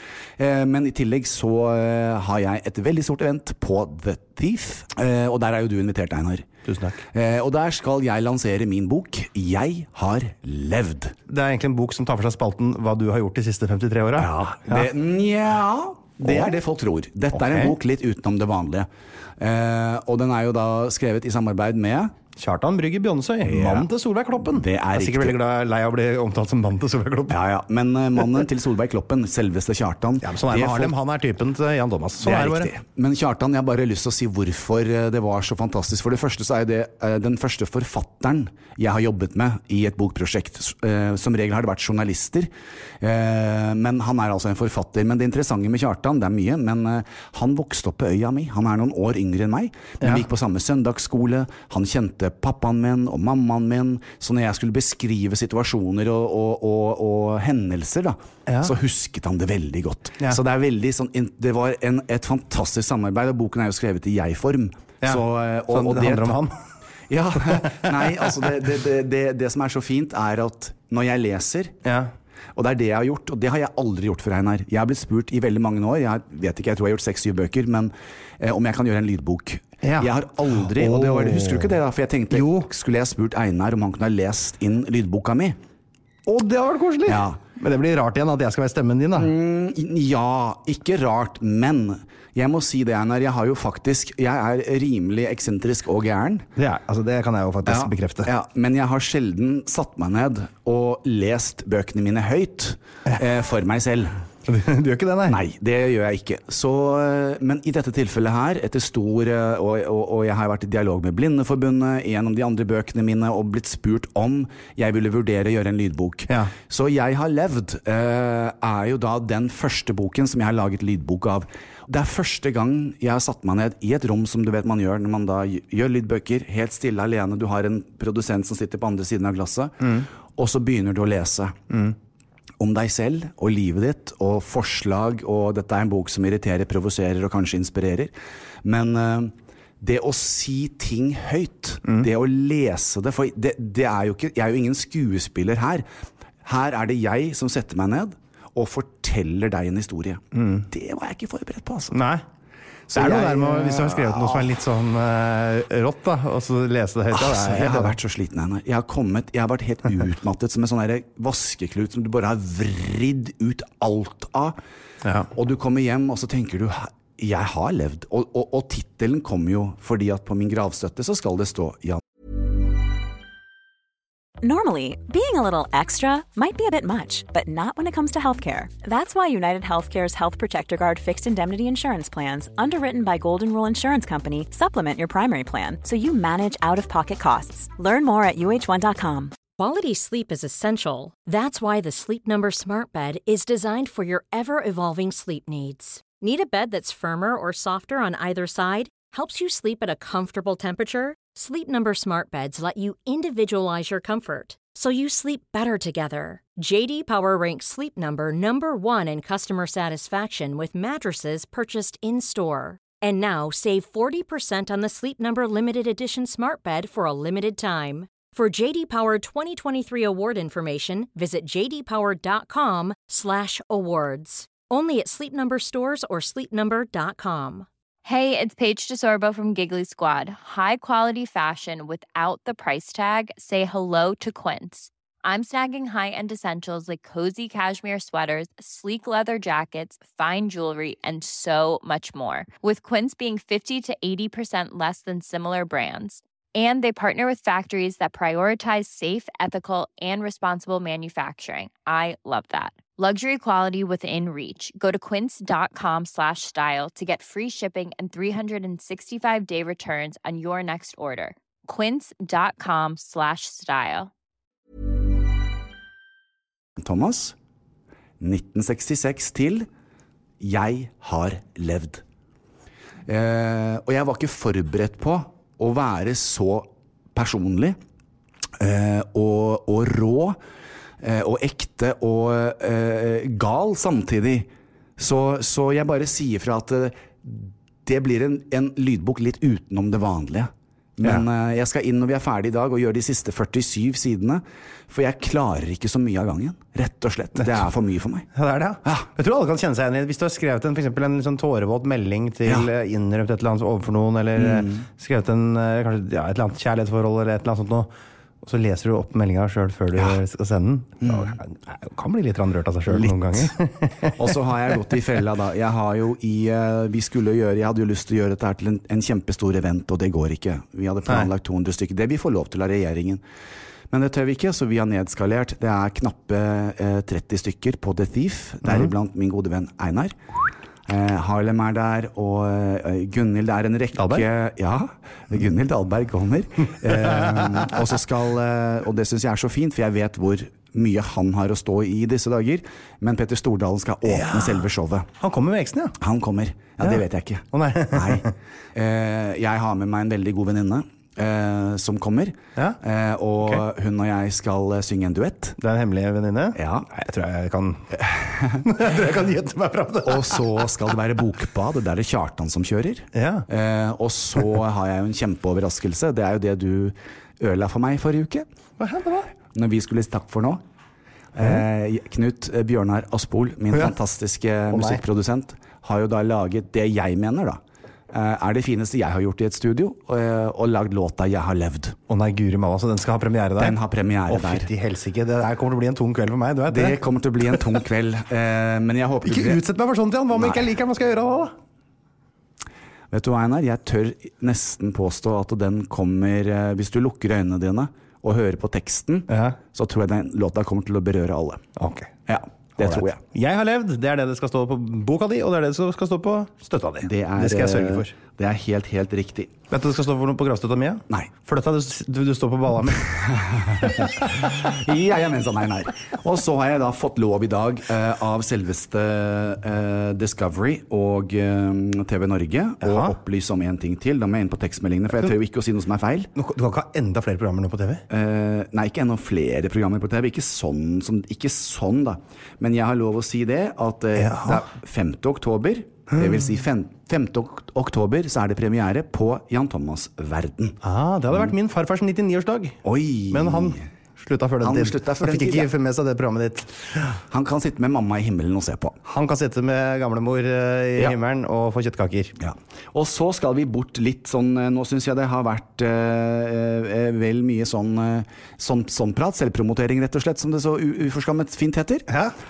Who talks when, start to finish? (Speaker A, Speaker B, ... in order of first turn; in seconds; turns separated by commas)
Speaker A: 0.4-6.5, Speaker B: 6.7-7.0, Speaker A: 7.1-11.2, Speaker B: 11.3-14.9, Speaker A: 14.2-22.1, Speaker B: 16.2-16.5, Speaker B: 17.3-17.7, Speaker B: 22.4-27.4, Speaker A: 23.4-23.9, Speaker A: 24.4-25.4, Speaker A: 27.3-30.9, Speaker B: 30.2-32.7, Speaker A: 32.2-66.4, Speaker B: 58.5-58.7, Speaker B: 65.0-66.5, Speaker A: 67.1-71.7, Speaker B: 67.5-68.3, Speaker B: 71.8-72.1, Speaker A: 72.5-85.6, Speaker B: 79.8-81.8, Speaker B: 82.3-82.7, Speaker B: 86.2-89.3, Speaker A: 87.0-87.4, Speaker A: 89.1-96.5, Speaker B: 96.6-98.3, Speaker A: 97.7-104.1, Speaker B: 104.5-105.4, Speaker A: 105.2-131.6, Speaker A: 132.6-138.1, Speaker A: 138.6-145.8, Speaker A: 146.4-152.0, Speaker B: 150.3-150.7, Speaker B: 151.9-152.2, Speaker A: 152.9-154.6, Speaker B: 152.9-157.9, Speaker A: 157.1-164.6, Speaker B: 165.0-165.3, Speaker A: 165.3-172.0, Speaker C: 174.4-189.4, Speaker D: 189.6-227.7, Speaker E: 228.0-264.1, Speaker A: 266.8-267.3, Speaker A: 268.2-269.7, Speaker A: 270.4-272.0, Speaker A: 273.1-277.8, Speaker A: 278.6-280.4, Speaker A: 281.0-298.3, Speaker B: 297.4-297.7, Speaker B: 298.3-307.9, Speaker A: 304.4-304.8, Speaker B: 308.4-314.3, Speaker A: 311.0-311.4, Speaker A: 312.9-313.5, Speaker A: 314.1-323.2, Speaker A: 323.9-330.1, Speaker B: 328.6-328.9, Speaker A: 330.9-345.1, Speaker B: 334.0-334.2, Speaker B: 344.1-344.6, Speaker B: 345.2-346.0, Speaker A: 346.0-355.6, Speaker B: 346.8-348.3, Speaker B: 355.6-360.6, Speaker A: 356.5-356.9, Speaker A: 358.1-358.7, Speaker A: 360.0-368.5, Speaker B: 363.1-363.4, Speaker B: 368.8-369.3, Speaker A: 369.5-370.6, Speaker A: 371.3-377.6, Speaker B: 374.7-375.0, Speaker A: 378.1-382.0, Speaker B: 382.1-383.8, Speaker A: 383.6-384.7, Speaker B: 384.3-387.0, Speaker A: 386.7-389.6, Speaker B: 389.2-391.5, Speaker A: 390.4-390.6, Speaker A: 393.1-401.6, Speaker B: 399.3-399.6, Speaker B: 401.8-402.1, Speaker A: 402.3-403.2, Speaker B: 402.8-408.1, Speaker A: 407.0-409.6, Speaker B: 409.7-413.2, Speaker A: 413.1-426.3, Speaker B: 422.8-423.1, Speaker B: 426.4-428.0, Speaker A: 428.1-440.8, Speaker B: 434.2-434.6, Speaker B: 436.1-436.4, Speaker B: 440.8-447.1, Speaker A: 442.8-443.8, Speaker A: 444.6-445.7, Speaker A: 447.3-449.0, Speaker B: 449.1-452.3, Speaker A: 452.4-462.1, Speaker B: 462.1-462.3